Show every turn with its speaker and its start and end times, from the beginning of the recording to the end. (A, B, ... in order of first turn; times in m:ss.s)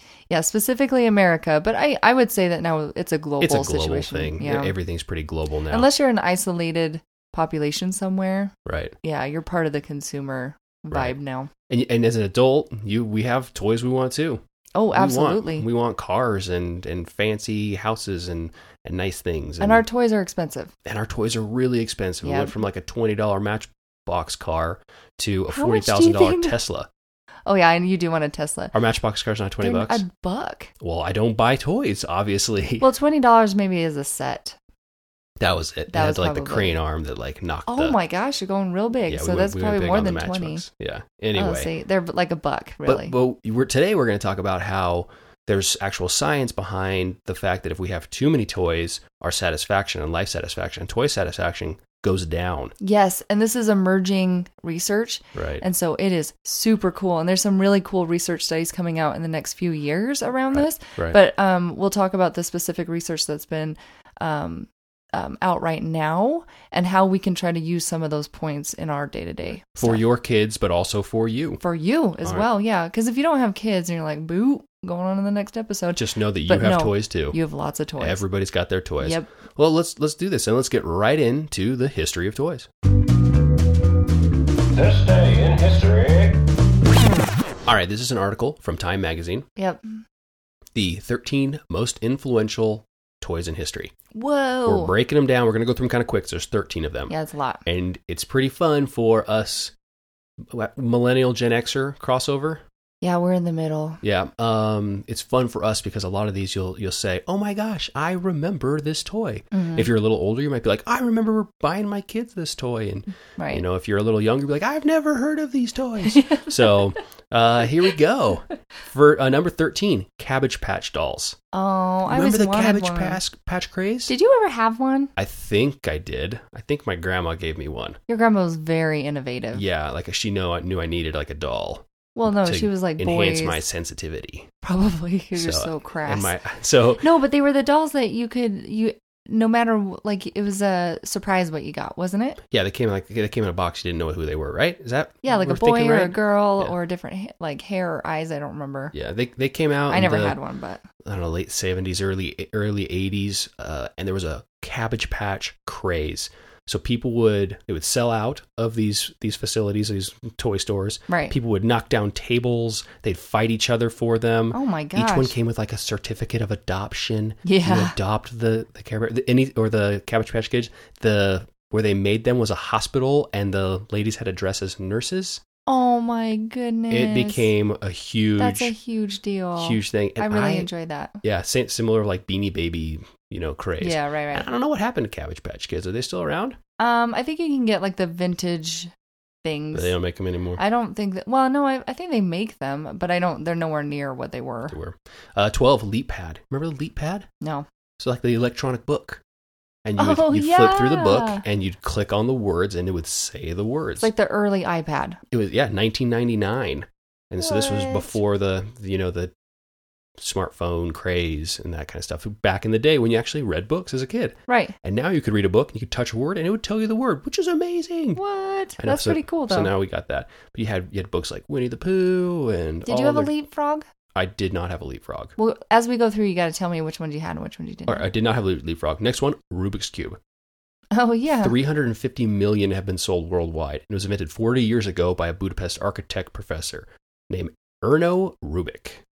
0:00.3-0:04.7 A
0:03.4-0:05.9 B
0:05.7-0:11.5 A
0:08.6-0:08.9 B
0:11.7-0:19.8 B
0:14.7-0:15.6 A
0:19.6-0:20.7 A
0:20.8-0:26.9 B
0:22.2-0:22.6 A
0:25.5-0:26.6 A
0:27.4-0:28.7 A
0:28.7-0:30.0 B
0:29.6-0:30.7 A
0:30.8-0:32.9 B
0:32.8-0:34.6 A
0:35.4-0:38.0 B
0:35.9-0:36.8 A
0:37.7-0:40.6 A
0:39.1-0:41.7 B
0:41.3-0:43.1 A
0:42.8-0:52.7 B
0:52.8-1:10.0 A
0:55.3-0:55.6 B
1:00.5-1:01.2 B
1:09.8-1:11.6 B
1:11.6-1:18.2 A
1:15.9-1:17.4 B
1:18.0-1:22.7 B
1:19.0-1:19.3 A
1:24.8-1:26.3 B
1:27.6-1:29.4 B
1:29.6-1:30.0 A
1:30.7-1:33.9 B
1:34.1-1:34.9 A
1:34.6-1:37.1 B
1:37.1-1:37.6 A
1:37.6-1:39.7 B
1:40.4-1:42.6 B
1:43.0-1:44.0 A
1:44.0-2:01.4 B
1:49.5-1:49.9 A
1:53.4-1:53.6 A
1:56.1-1:56.5 A
2:01.5-2:03.2 A
2:02.1-2:04.1 B
2:04.1-2:05.1 A
2:05.2-2:08.0 B
2:08.1-2:09.6 A
2:09.5-2:14.5 B
2:12.2-2:13.6 A
2:14.6-2:16.3 A
2:15.4-2:17.0 B
2:17.0-2:22.4 A
2:22.5-2:26.7 B
2:25.2-2:28.9 A
2:28.9-2:30.4 B
2:29.9-2:30.8 A
2:31.0-2:55.4 B
2:41.1-2:41.4 A
2:44.5-2:45.3 A
2:47.4-2:48.0 A
2:55.7-2:57.5 A
2:56.9-2:58.7 B
2:58.4-3:01.2 A
2:59.6-3:00.7 B
3:01.2-3:06.6 B
3:03.8-3:04.5 A
3:06.8-3:08.9 A
3:09.4-3:09.9 A
3:09.7-3:10.6 B
3:10.6-3:14.8 A
3:14.7-3:17.3 B
3:17.4-3:17.6 A
3:18.0-3:19.2 B
3:19.8-3:24.1 B
3:20.0-3:21.4 A
3:24.0-3:25.2 A
3:25.3-3:29.3 B
3:27.4-3:28.2 A
3:30.2-3:38.2 B
3:34.5-3:34.7 A
3:38.1-3:39.7 A
3:38.8-3:43.3 B
3:42.8-3:43.9 A
3:44.1-3:45.3 B
3:45.4-3:48.1 A
3:47.8-3:50.2 B
3:50.9-3:51.5 A
3:51.4-3:59.0 B